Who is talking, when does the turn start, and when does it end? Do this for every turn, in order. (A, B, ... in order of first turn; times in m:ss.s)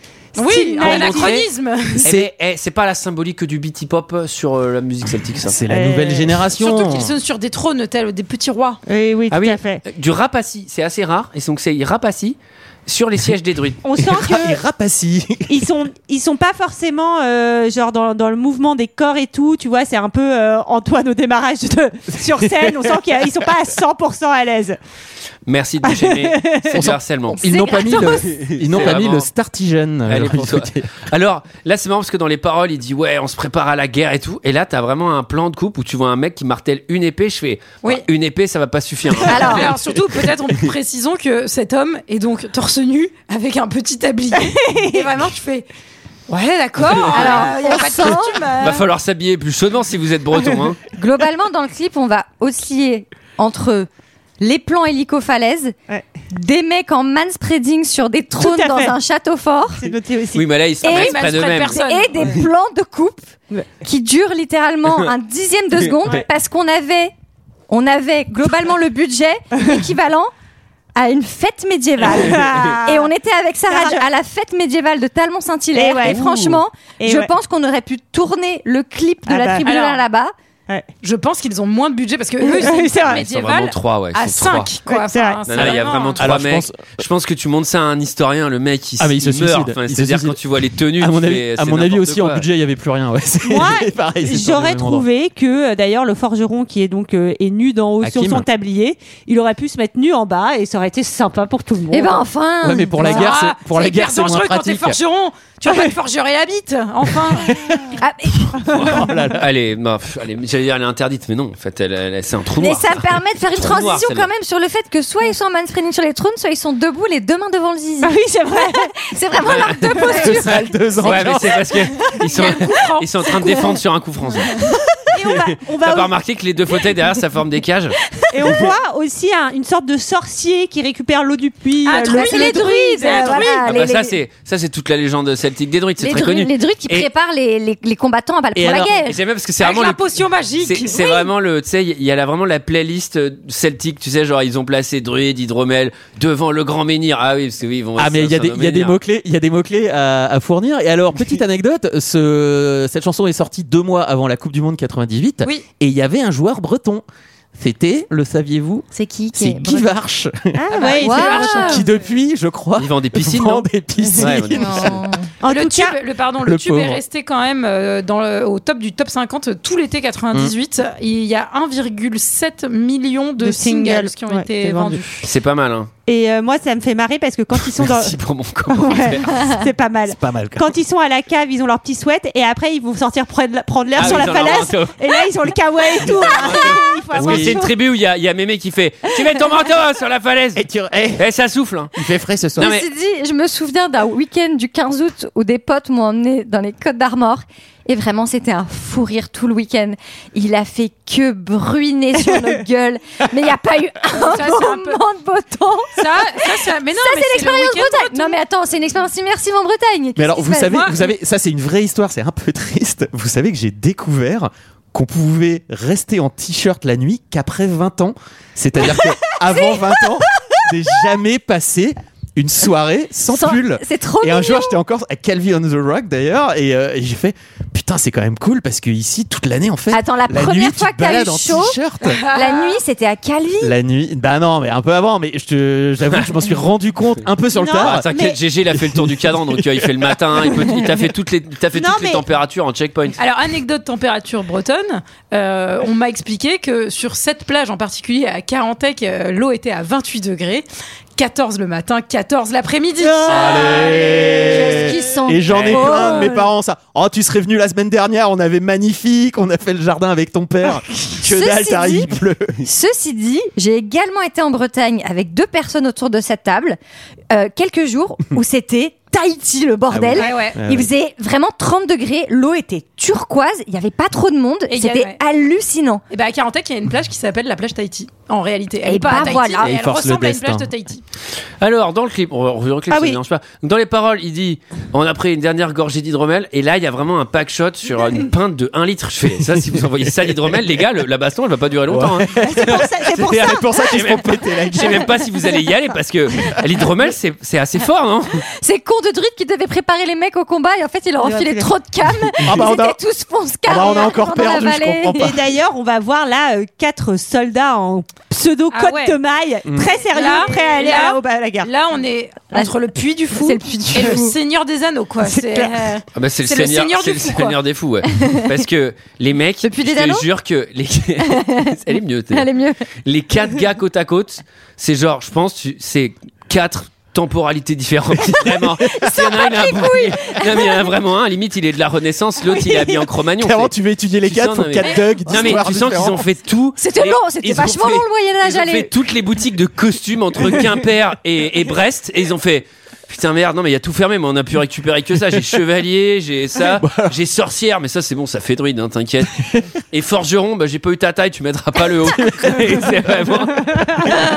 0:00.3-0:01.4 A
0:00.4-0:02.0 B
0:00.8-0:05.6 C
0:02.0-0:02.3 D
0:05.4-0:07.1 D
0:05.7-0:06.4 A
0:06.6-0:08.8 B
0:08.8-0:09.8 A
0:09.3-0:13.8 C
0:13.8-0:14.6 A
0:14.0-0:15.6 D
0:15.5-0:24.8 A
0:22.4-0:22.9 D
0:25.5-0:29.3 C
0:25.8-0:26.8 A
0:26.7-0:30.9 D
0:27.4-0:28.8 E
0:30.1-0:39.7 C
0:39.2-0:39.7 E
0:39.3-0:45.7 B
0:44.4-0:45.1 A
0:46.3-0:48.8 B
0:46.9-0:47.5 C
0:47.1-0:48.5 E
0:48.6-0:50.8 C
0:50.9-0:53.9 E
0:54.4-0:55.8 E
0:56.3-0:59.9 E
0:58.4-0:58.9 A
0:59.8-1:00.5 A
1:00.3-1:01.8 C
1:00.8-1:07.1 E
1:00.8-1:02.3 B
1:07.7-1:10.3 E
1:10.9-1:20.3 E
1:12.1-1:13.1 A
1:13.7-1:14.0 A
1:15.7-1:17.3 A
1:19.3-1:19.9 A
1:19.6-1:20.0 B
1:21.0-1:26.2 B
1:22.4-1:23.3 A
1:23.0-1:24.7 C
1:24.9-1:25.4 A
1:25.5-1:32.4 C
1:25.6-1:26.8 D
1:29.0-1:30.4 D
1:30.9-1:35.0 D
1:33.4-1:42.2 A
1:38.0-1:38.5 D
1:41.9-1:43.3 E
1:42.6-1:45.0 D
1:43.0-1:47.6 B
1:47.3-1:47.8 D
1:48.0-1:48.5 E
1:48.6-1:54.3 C
1:48.7-1:49.4 D
1:52.6-2:00.6 E
1:58.0-1:58.9 A
1:59.4-2:00.2 C
2:00.0-2:01.7 D
2:01.0-2:04.6 C
2:02.3-2:03.8 B
2:05.1-2:06.1 A
2:05.6-2:08.0 C
2:08.3-2:13.6 A
2:11.8-2:13.7 B
2:11.9-2:14.1 E
2:13.6-2:17.1 C
2:16.0-2:19.2 E
2:18.6-2:18.9 D
2:18.6-2:29.0 C
2:19.6-2:21.2 B
2:28.0-2:37.0 D
2:37.6-2:40.6 D
2:38.9-2:39.9 E
2:40.5-2:41.8 A
2:40.7-2:41.9 B
2:41.0-2:41.8 E
2:41.2-2:45.0 D
2:42.8-2:45.0 C
2:44.5-2:45.3 E
2:45.4-2:46.0 A
2:45.4-2:55.2 B
2:46.4-2:47.0 D
2:53.4-2:55.2 A
2:55.2-2:55.9 C
2:56.0-2:58.2 A
2:57.6-2:59.4 C
2:58.7-3:07.7 A
3:00.1-3:00.7 D
3:04.0-3:05.2 C
3:06.0-3:10.6 C
3:07.1-3:07.6 D
3:10.6-3:11.2 D
3:11.2-3:11.9 C
3:11.9-3:12.7 D
3:12.6-3:12.9 C
3:12.6-3:30.9 E
3:24.1-3:25.0 B
3:26.0-3:28.4 B
3:30.2-3:52.2 D
3:38.8-3:40.0 E
3:43.3-3:44.8 E
3:49.9-3:53.7 E
3:52.0-3:52.8 B
3:53.6-3:58.0 D
3:57.6-3:58.4 A
3:57.7-4:03.2 C
3:58.7-4:00.2 D
4:01.7-4:02.2 A
4:03.2-4:10.6 B
4:11.2-4:14.1 B
4:13.2-4:22.7 D
4:13.3-4:16.4 E
4:15.5-4:15.9 C
4:16.0-4:16.3 A
4:21.2-4:26.8 E
4:27.3-4:36.0 E
4:29.9-4:30.9 D
4:30.2-4:30.6 B
4:34.7-4:35.2 B
4:36.1-4:41.0 B
4:38.8-4:39.7 E
4:39.6-4:40.7 D
4:41.6-4:58.4 C
4:42.9-4:43.2 A
4:51.9-4:55.1 D
4:52.4-4:54.1 A
4:58.6-5:05.3 E
5:01.2-5:01.7 A
5:02.4-5:03.0 D
5:03.6-5:05.4 D
5:05.2-5:11.7 A
5:08.7-5:09.2 B
5:09.7-5:09.9 D
5:10.1-5:17.6 B
5:13.3-5:14.3 E
5:15.2-5:16.0 A
5:16.1-5:22.4 C
5:18.1-5:18.4 E
5:19.6-5:20.3 E
5:21.2-5:21.8 E
5:22.3-5:22.8 E
5:23.0-5:53.8 C
5:28.9-5:30.9 E
5:33.4-5:36.2 D
5:34.8-5:35.1 B
5:36.8-5:38.9 E
5:46.8-5:47.1 D
5:52.1-5:53.0 D